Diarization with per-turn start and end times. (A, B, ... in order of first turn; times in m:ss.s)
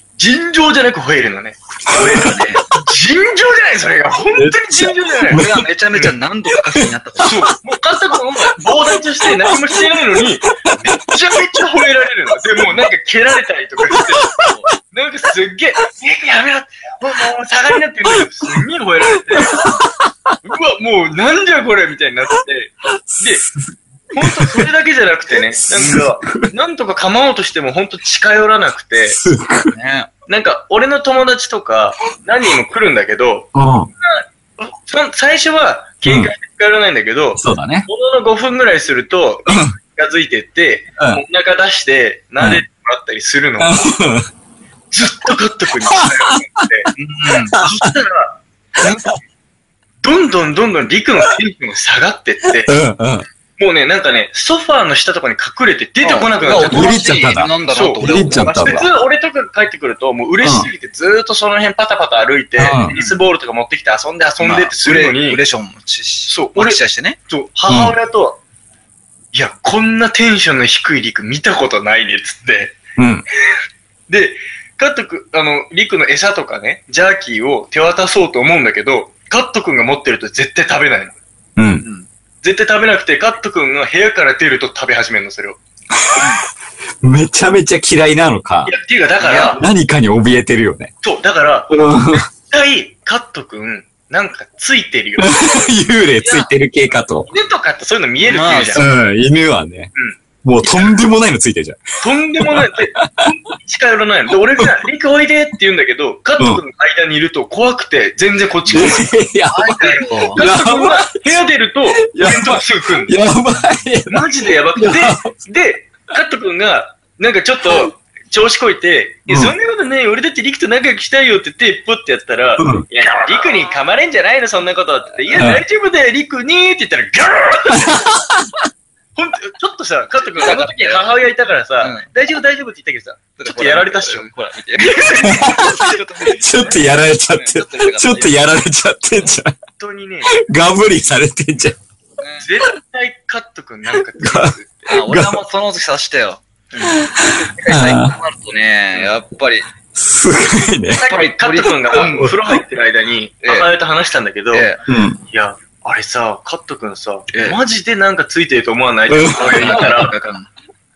0:00.2-0:05.4 A
0:01.9-0:02.6 B
0:01.9-0:02.2 C
0:04.4-0:05.6 C
0:05.3-0:07.5 B
0:07.2-0:19.7 A
0:10.6-0:10.9 C
0:13.9-0:14.5 C
0:19.3-0:20.4 C
0:20.4-0:23.4 A
0:23.1-0:24.7 C
0:24.1-0:29.2 A
0:25.7-0:26.5 C
0:29.1-0:29.8 C
0:29.7-0:30.1 B
0:30.3-0:33.5 A
0:33.5-0:33.9 C
0:34.0-0:43.9 A
0:36.0-0:36.3 C
0:37.4-0:37.9 C
0:39.5-0:39.8 C
0:43.6-0:44.3 C
0:44.9-0:46.9 A
0:45.9-0:47.9 C
0:47.0-0:47.7 B
0:47.6-0:48.4 A
0:50.0-0:52.8 A
0:52.6-0:53.3 C
0:53.6-1:05.4 A
0:56.0-0:58.7 B
0:56.5-0:58.9 C
1:00.4-1:00.7 C
1:02.6-1:02.9 C
1:04.4-1:07.2 B
1:06.3-1:06.8 A
1:07.3-1:08.4 A
1:07.7-1:08.0 C
1:09.3-1:12.8 A
1:13.0-1:13.2 C
1:14.1-1:21.2 A
1:21.6-1:21.8 C
1:22.4-1:25.6 A
1:27.0-1:28.7 C
1:28.7-1:29.6 A
1:29.2-1:29.6 B
1:29.6-1:30.9 C
1:31.0-1:36.5 A
1:31.7-1:32.3 C
1:35.2-1:37.3 C
1:37.3-1:38.9 A
1:38.3-1:38.9 B
1:38.8-1:39.9 C
1:40.0-1:40.9 A
1:40.4-1:41.8 C
1:42.0-1:53.2 A
1:42.4-1:43.3 C
1:48.7-1:51.3 C
1:49.5-1:50.4 B
1:52.0-1:55.3 C
1:54.1-2:08.2 A
1:59.3-1:59.5 C
2:02.6-2:02.9 C
2:05.4-2:05.6 C
2:07.8-2:08.5 C
2:09.2-2:14.3 A
2:10.2-2:11.1 B
2:11.8-2:12.1 B
2:13.4-2:18.4 B
2:14.8-2:16.0 A
2:15.2-2:19.6 C
2:19.8-2:20.4 A
2:20.3-2:21.8 C
2:22.2-2:22.5 B
2:22.4-2:25.0 A
2:24.2-2:25.4 C
2:24.9-2:26.4 B
2:26.7-2:27.0 A
2:27.0-2:28.2 C
2:27.5-2:29.7 B
2:29.9-2:31.0 C
2:31.0-2:34.7 A
2:31.0-2:32.4 B
2:32.0-2:32.6 C
2:33.4-2:33.7 B
2:34.5-2:34.8 B
2:34.9-2:35.2 C
2:35.3-2:40.1 A
2:37.3-2:37.6 B
2:39.1-2:40.0 C
2:39.4-2:40.5 B